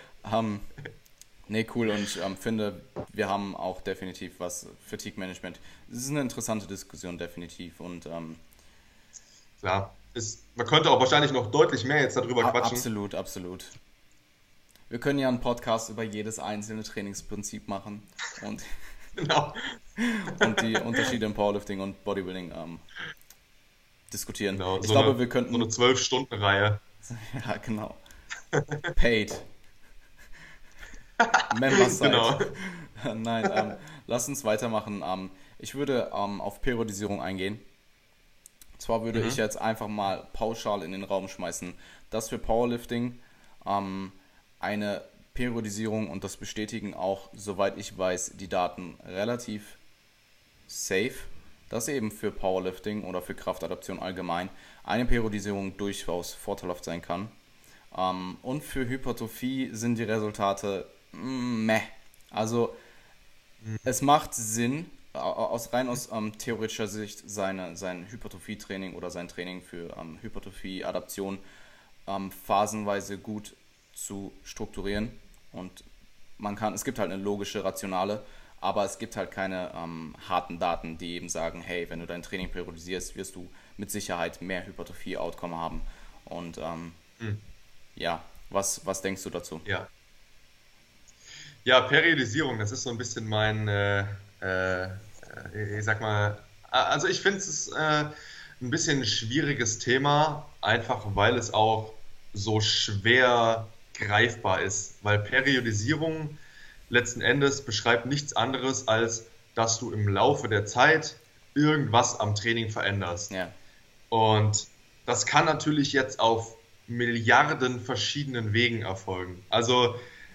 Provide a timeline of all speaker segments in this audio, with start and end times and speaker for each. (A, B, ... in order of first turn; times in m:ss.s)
0:00.2-0:00.6 A
0:01.5-0:08.4 A
0:09.6-0:12.9 B
0:12.4-0:13.8 A
0:14.9-0:18.7 A
0:19.1-0:19.8 B
0:20.0-0:22.8 A
0:20.3-0:21.1 B
0:24.1-0:25.7 A
0:24.5-0:26.8 B
0:27.0-0:28.0 A
0:28.5-0:28.9 B
0:28.9-0:29.5 A
0:31.2-0:32.5 B
0:31.5-0:37.6 A
0:38.8-0:49.8 A
0:39.1-0:39.4 B
0:50.7-0:57.3 A
0:57.9-1:02.8 A
1:03.8-1:11.4 A
1:12.0-1:15.8 A
1:16.4-1:27.0 A
1:27.2-1:27.4 B
1:28.0-1:29.6 A
1:29.6-1:29.9 B
1:31.6-1:46.4 B
1:46.9-1:53.3 B
1:54.1-2:00.0 B